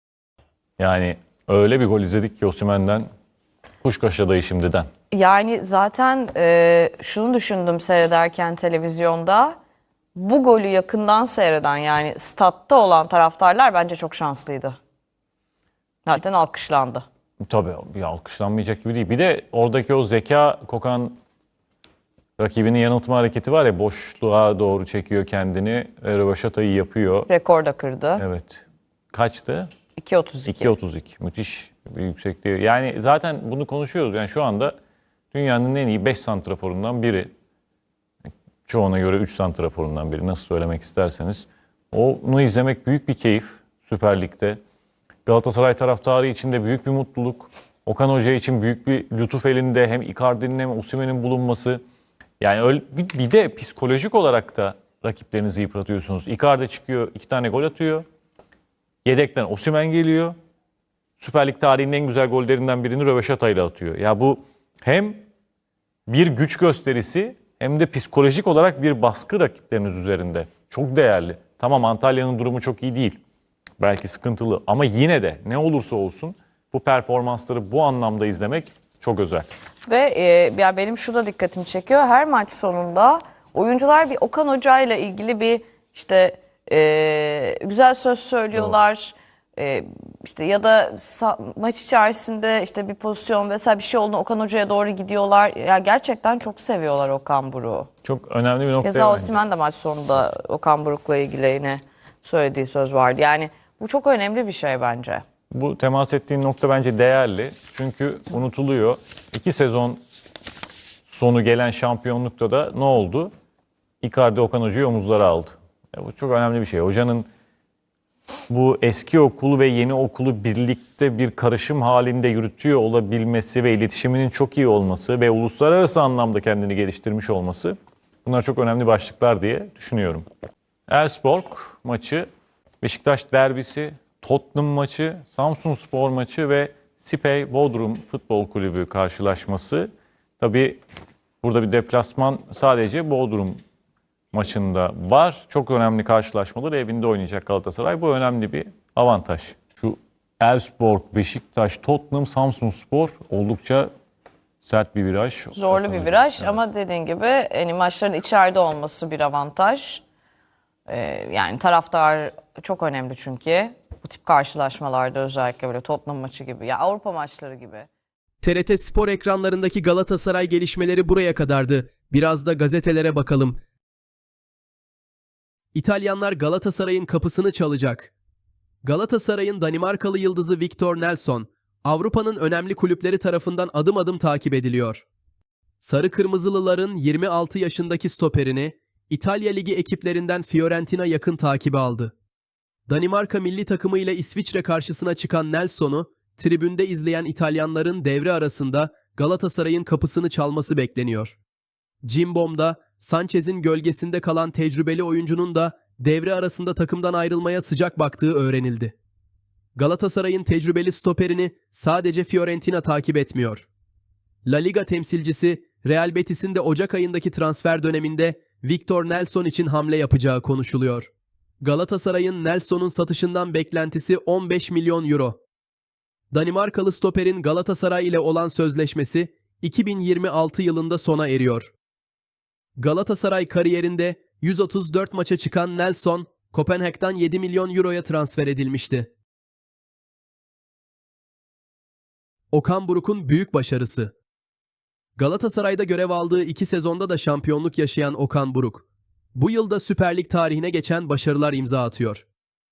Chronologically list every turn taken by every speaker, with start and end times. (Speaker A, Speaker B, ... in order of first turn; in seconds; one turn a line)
Speaker A: 0.8-3.1
Speaker A: 3.8-4.9
Speaker B: 5.1-9.6
Speaker B: 10.2-14.8
Speaker B: 16.1-17.1
Speaker A: 17.4-21.2
Speaker A: 22.4-27.3
Speaker B: 27.3-28.2
Speaker A: 28.2-29.7
Speaker B: 30.0-30.7
Speaker A: 30.5-34.8
Speaker A: 35.3-37.3
Speaker A: 38.7-44.6
Speaker A: 45.3-51.8
Speaker A: 52.4-58.0
Speaker A: 59.0-60.4
Speaker A: 61.2-65.2
Speaker A: 66.1-73.2
Speaker A: 73.8-79.5
Speaker B: 79.9-97.9
Speaker A: 98.0-99.4
Speaker B: 98.8-105.2
Speaker A: 105.5-110.0
Speaker A: 111.1-113.3
Speaker A: 114.0-117.3
Speaker A: 118.5-130.2
Speaker A: 130.9-132.3
Speaker A: 132.8-139.9
Speaker A: 140.4-140.8
Speaker A: 141.4-143.6
Speaker A: 144.3-153.9
Speaker A: 154.6-156.6
Speaker B: 155.6-160.0
Speaker B: 160.9-167.9
Speaker C: 168.4-173.6
Speaker C: 175.7-178.1
Speaker C: 178.8-185.1
Speaker C: 185.8-192.1
Speaker C: 192.9-201.4
Speaker C: 202.0-208.9
Speaker C: 209.8-213.7
Speaker C: 214.4-221.1
Speaker C: 221.6-225.4
Speaker C: 226.3-231.7
Speaker C: 232.8-239.1
Speaker C: 242.5-244.1
Speaker C: 245.2-252.3